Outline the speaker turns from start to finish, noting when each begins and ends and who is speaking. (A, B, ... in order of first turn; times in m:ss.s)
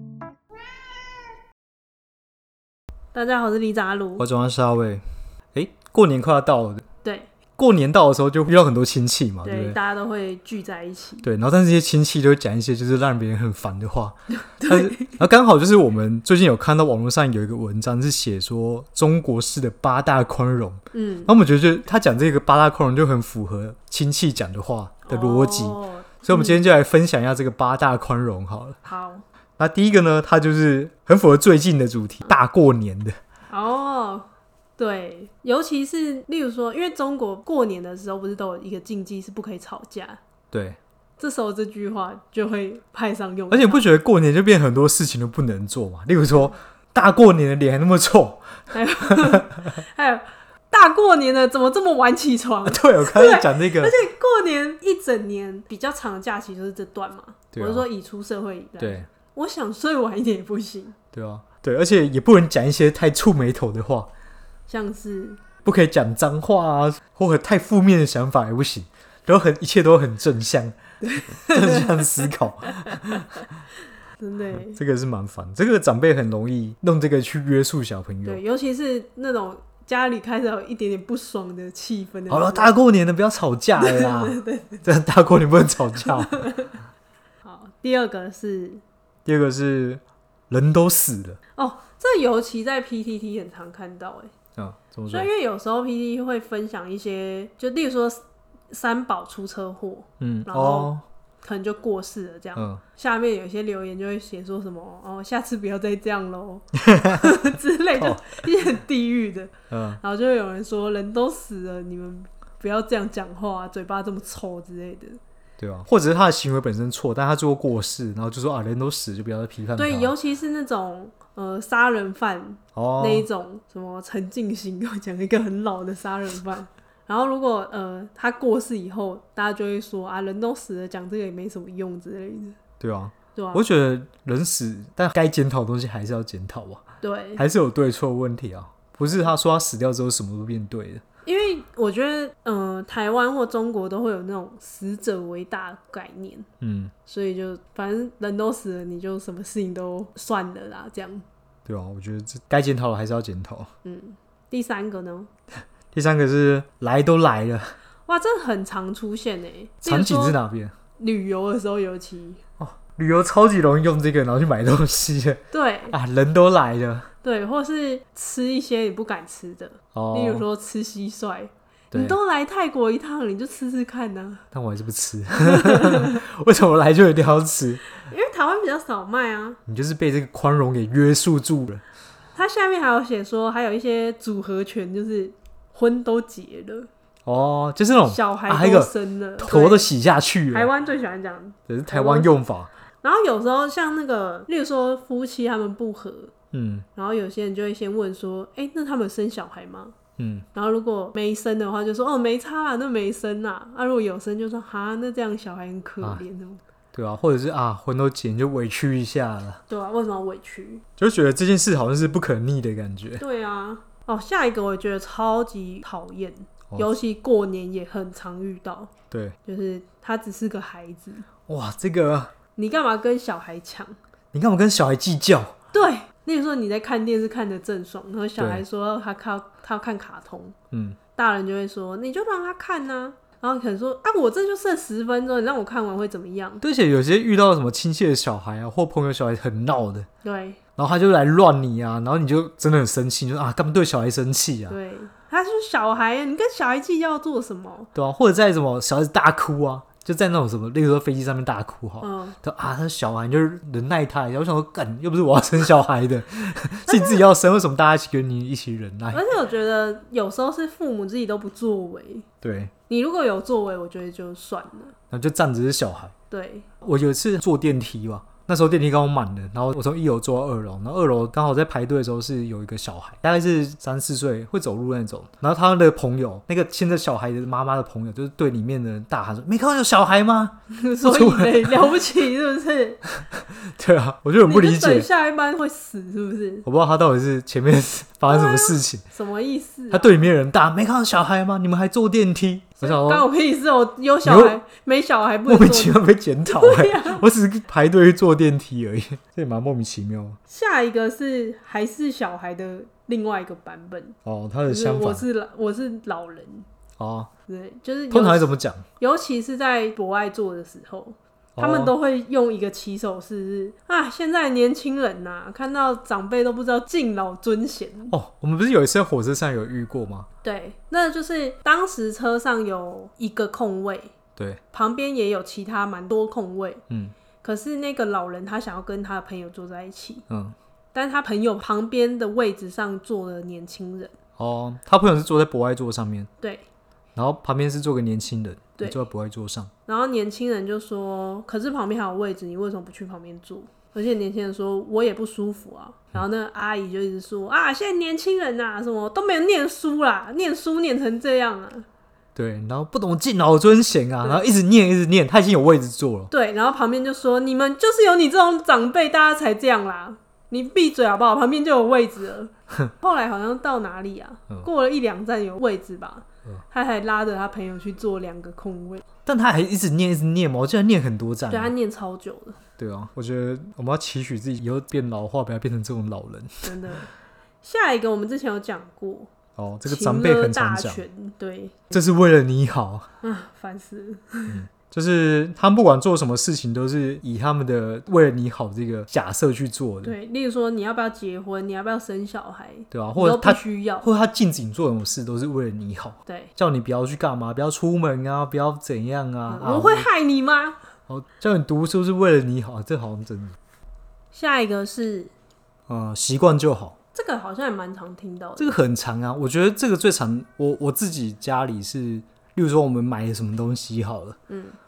0:03.1-0:04.3 A
0:04.2-0:06.8 B
0:07.0-0:07.3 A
0:07.6-0:09.8 B
0:09.4-0:11.2 A
0:11.2-0:28.8 B
0:14.3-0:15.2 A
0:20.9-0:21.3 A
0:25.0-0:26.6 A
0:28.8-0:29.2 A
0:29.6-0:33.2 B
0:33.5-0:40.2 A
0:40.5-0:40.8 B
0:41.2-0:43.9 A
0:43.5-0:49.5 B
0:48.7-1:01.0 A
0:52.6-0:53.9 B
0:57.5-0:57.9 B
0:58.8-0:59.1 B
1:01.1-1:04.1 B
1:04.7-1:05.4 A
1:05.6-1:10.8 B
1:11.0-1:13.0 A
1:11.4-1:13.2 B
1:14.2-1:14.8 A
1:14.5-1:18.4 B
1:18.2-1:22.7 A
1:22.3-1:26.4 B
1:23.8-1:24.8 A
1:26.3-1:26.7 A
1:27.4-1:28.8 A
1:29.2-1:31.4 B
1:31.6-1:34.3 A
1:34.6-1:35.3 B
1:35.1-1:55.2 A
1:40.2-1:41.0 B
1:42.6-1:42.8 B
1:46.9-1:47.3 B
1:48.0-1:48.3 B
1:49.7-1:50.0 B
1:55.6-2:00.1 B
1:59.8-2:12.6 A
2:02.7-2:03.2 B
2:12.8-2:16.8 B
2:13.3-2:13.6 A
2:17.0-2:17.4 A
2:17.4-2:21.0 B
2:21.2-2:26.5 A
2:26.6-2:26.9 B
2:27.0-2:31.2 A
2:31.6-2:33.7 B
2:33.8-2:35.3 A
2:35.9-2:37.7 B
2:38.0-2:40.4 A
2:39.8-2:40.7 B
2:41.0-2:42.4 A
2:42.6-2:47.1 B
2:45.5-2:46.0 A
2:47.2-2:54.4 A
2:49.9-2:50.4 B
2:54.5-2:57.8 B
2:55.4-2:56.2 A
2:58.0-2:59.6 A
2:59.7-3:01.8 B
3:02.3-3:06.9 A
3:07.2-3:10.7 B
3:08.1-3:09.9 A
3:10.5-3:12.3 A
3:11.7-3:12.7 B
3:13.0-3:16.3 A
3:16.5-3:16.8 B
3:16.9-3:20.0 A
3:20.2-3:20.4 B
3:20.5-3:26.6 A
3:26.9-3:29.6 B
3:29.7-3:30.8 A
3:31.0-3:33.2 B
3:33.2-3:38.9 A
3:36.7-3:37.0 B
3:39.1-3:39.4 B
3:39.4-3:41.2 A
3:41.5-3:42.3 B
3:42.5-3:43.9 A
3:44.3-3:45.5 B
3:45.7-3:50.5 A
3:48.4-3:48.6 B
3:50.7-3:51.0 B
3:51.1-3:56.6 A
3:56.6-4:00.1 B
4:00.2-4:00.6 A
4:00.8-4:04.8 B
4:04.7-4:07.9 A
4:07.9-4:19.2 B
4:12.0-4:12.4 A
4:16.8-4:17.2 A
4:19.1-4:22.2 A
4:22.4-4:22.7 B
4:22.9-4:24.9 A
4:25.1-4:26.1 B
4:26.3-4:26.7 A
4:26.8-4:41.9 B
4:40.7-4:43.0 A
4:43.3-4:45.1 B
4:44.4-4:46.6 A
4:46.6-4:49.0 B
4:48.2-4:50.3 A
4:49.9-4:53.2 B
4:52.8-4:57.2 A
4:54.2-4:54.6 B
4:55.5-5:00.4 B
5:00.5-5:06.7 A
5:04.2-5:05.2 B
5:07.0-5:07.3 B
5:07.5-5:18.1 A
5:08.1-5:08.8 B
5:11.6-5:12.0 B
5:18.1-5:20.3 B
5:20.4-5:24.1 A
5:24.4-5:24.6 B
5:24.7-5:26.8 A
5:26.9-5:27.1 B
5:27.4-5:30.2 A
5:30.3-5:30.6 B
5:30.9-5:34.1 A
5:34.4-5:36.3 B
5:36.4-5:36.6 A
5:37.2-5:39.7 B
5:38.8-5:39.0 A
5:39.8-5:51.8 A
5:52.3-5:56.3 B
5:54.2-5:54.4 A
5:56.3-6:09.0 A
6:09.2-6:11.7 B
6:11.5-6:12.6 A
6:12.8-6:16.8 B
6:16.6-6:17.1 A
6:17.6-6:19.3 A
6:19.6-6:21.0 B
6:19.8-6:21.9 A
6:21.9-6:23.1 B
6:23.2-6:24.6 A
6:24.5-6:30.1 B
6:30.0-6:34.1 A
6:32.9-6:40.1 B
6:36.2-6:36.5 A
6:39.5-6:40.8 A
6:41.1-6:43.6 B
6:44.3-6:45.3 A
6:45.9-6:46.9 B
6:47.1-6:48.8 A
6:48.6-6:54.4 B
6:54.5-6:54.8 A